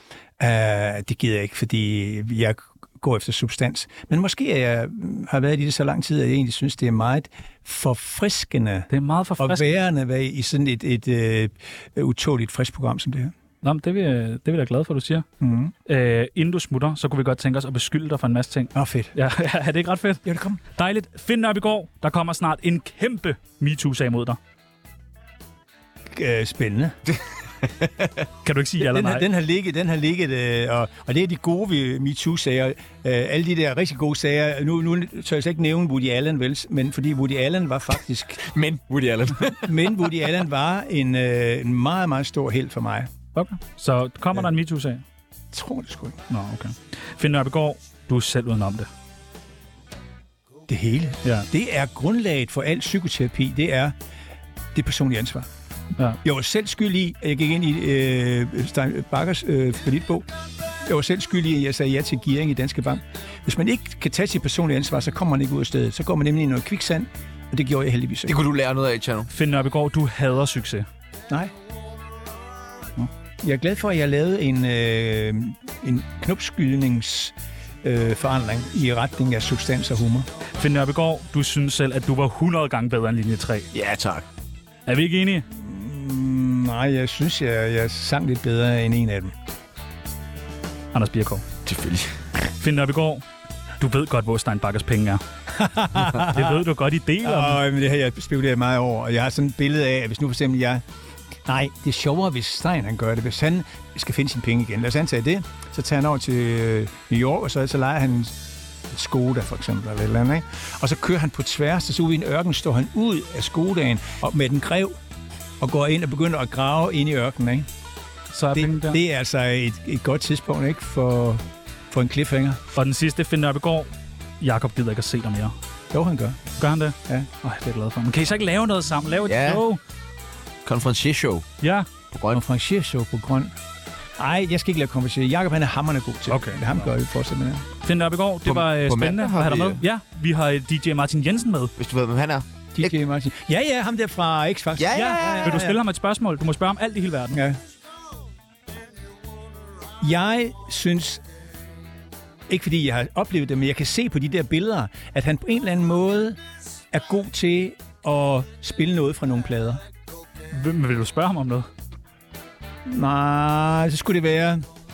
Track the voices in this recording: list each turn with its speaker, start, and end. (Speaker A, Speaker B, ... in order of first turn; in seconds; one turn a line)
Speaker A: 0.4-13.3
Speaker B: 8.9-9.7
Speaker B: 13.6-15.2
Speaker A: 15.4-15.7
Speaker B: 15.9-24.4
Speaker A: 18.7-19.1
Speaker A: 20.2-20.6
Speaker A: 26.1-27.0
Speaker B: 28.4-29.3
Speaker A: 28.8-38.5
Speaker C: 38.4-40.2
Speaker A: 39.6-43.1
Speaker B: 43.3-45.0
Speaker A: 45.5-46.2
Speaker B: 46.3-48.9
Speaker A: 50.7-54.0
Speaker A: 54.7-55.5
Speaker A: 56.2-60.2
Speaker A: 60.8-68.4
Speaker C: 68.3-69.3
Speaker B: 69.3-70.8
Speaker A: 73.4-80.3
Speaker B: 80.5-83.7
Speaker C: 83.7-84.2
Speaker B: 84.9-85.5
Speaker A: 85.5-89.3
Speaker B: 90.9-91.4
Speaker C: 91.7-92.1
Speaker B: 92.6-93.2
Speaker B: 93.8-95.2
Speaker A: 95.5-96.6
Speaker B: 96.0-97.6
Speaker A: 97.2-100.8
Speaker A: 101.5-108.4
Speaker A: 108.9-114.9
Speaker A: 115.6-117.7
Speaker B: 118.3-119.0
Speaker A: 118.5-122.6
Speaker B: 122.7-125.5
Speaker A: 125.9-126.4
Speaker B: 126.6-129.8
Speaker C: 129.3-129.6
Speaker C: 130.6-131.4
Speaker B: 131.6-131.9
Speaker C: 132.1-132.4
Speaker A: 132.3-133.5
Speaker A: 134.2-137.7
Speaker B: 136.3-136.8
Speaker B: 137.8-141.7
Speaker C: 138.4-139.8
Speaker C: 141.8-142.9
Speaker A: 142.8-145.8
Speaker C: 144.8-145.6
Speaker B: 144.9-147.4
Speaker A: 147.3-147.6
Speaker A: 150.0-151.2
Speaker A: 152.5-156.4
Speaker A: 156.9-159.8
Speaker B: 160.5-161.7
Speaker A: 162.8-164.7